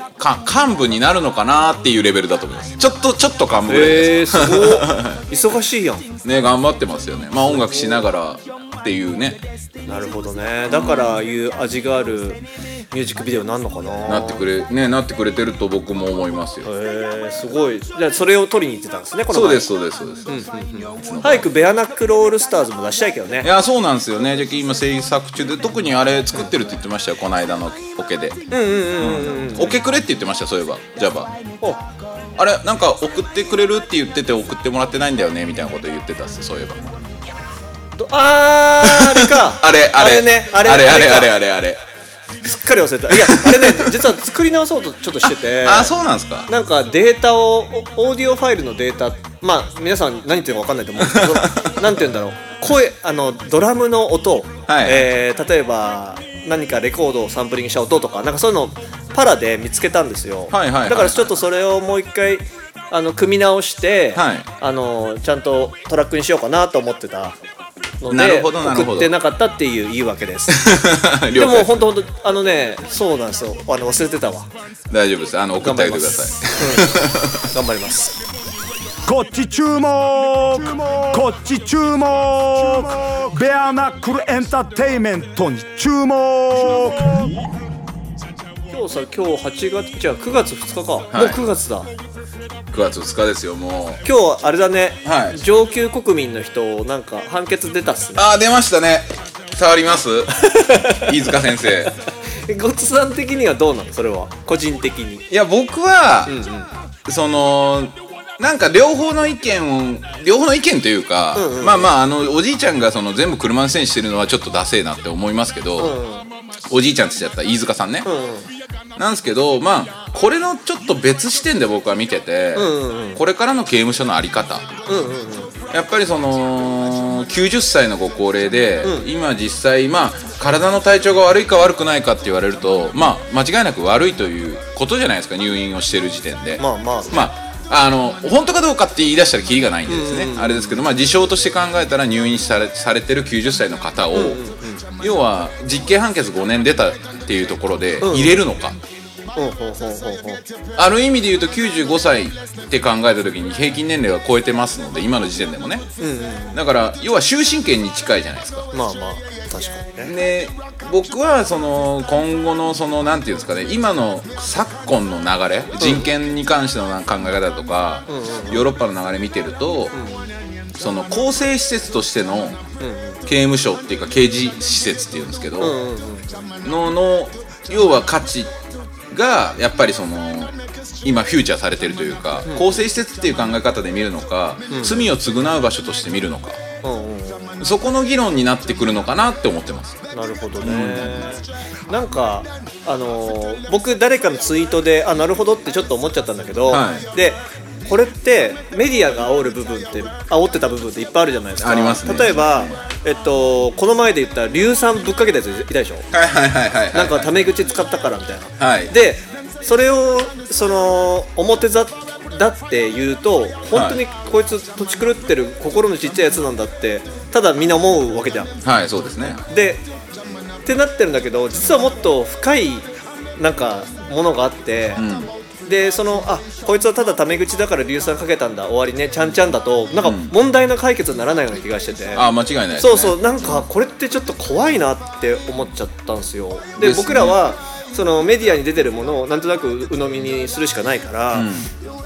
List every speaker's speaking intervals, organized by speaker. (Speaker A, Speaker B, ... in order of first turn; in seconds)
Speaker A: 0.2-5.2, 6.2-9.4, 10.7-11.1, 14.1-16.7, 19.3-20.4, 21.0-21.5, 23.4-28.4, 29.0-31.4, 32.4-37.0, 38.8-41.8, 43.1-43.9, 45.2-46.5, 51.0-51.8, 54.7-55.1, 60.5-61.4, 64.2-64.5, 68.1-69.1, 70.5-71.9, 74.9-77.5, 91.1-91.4, 92.7-94.0, 95.0-95.4, 98.2-101.9, 105.3-106.4, 107.1-116.0, 116.7-118.1, 119.0-124.7, 125.7-144.4, 145.0-148.8, 150.8-155.9, 156.5-158.7, 160.0-169.9, 170.8-172.6, 173.2-175.8, 176.6-178.5, 179.1-186.6, 187.6-190.0, 190.6-191.3, 196.7-197.1, 201.6-202.8, 206.1-207.5, 208.6-208.9, 213.7-214.0, 218.6-219.4, 225.0-225.3, 230.0-230.3, 232.2-233.7, 236.8-237.4, 241.3-241.7
Speaker B: 3.7-6.1, 7.5-8.0, 9.9-14.4, 16.6-19.7, 20.3-23.5, 28.5-29.8, 38.0-41.4, 42.4-45.9, 46.5-67.4, 68.0-70.7, 71.3-74.5, 75.6-78.2, 88.7-91.9, 94.0-98.3, 100.4-101.9, 102.4-105.3, 106.3-106.7, 111.3-111.9, 115.8-116.3, 118.0-118.5, 122.6-123.2, 124.9-125.5, 128.8-129.1, 136.6-137.3, 139.9-140.8, 144.1-144.8, 148.0-148.4, 149.4-150.4, 156.0-156.6, 158.7-160.2, 165.8-166.1, 168.1-168.7, 169.9-170.3, 172.8-173.2, 175.6-176.4, 182.5-182.8, 184.7-185.1, 186.8-187.6, 190.1-206.1, 206.9-218.6, 219.5-219.8, 220.7-225.1, 225.7-232.3, 232.8-241.5
Speaker C: 79.1-87.5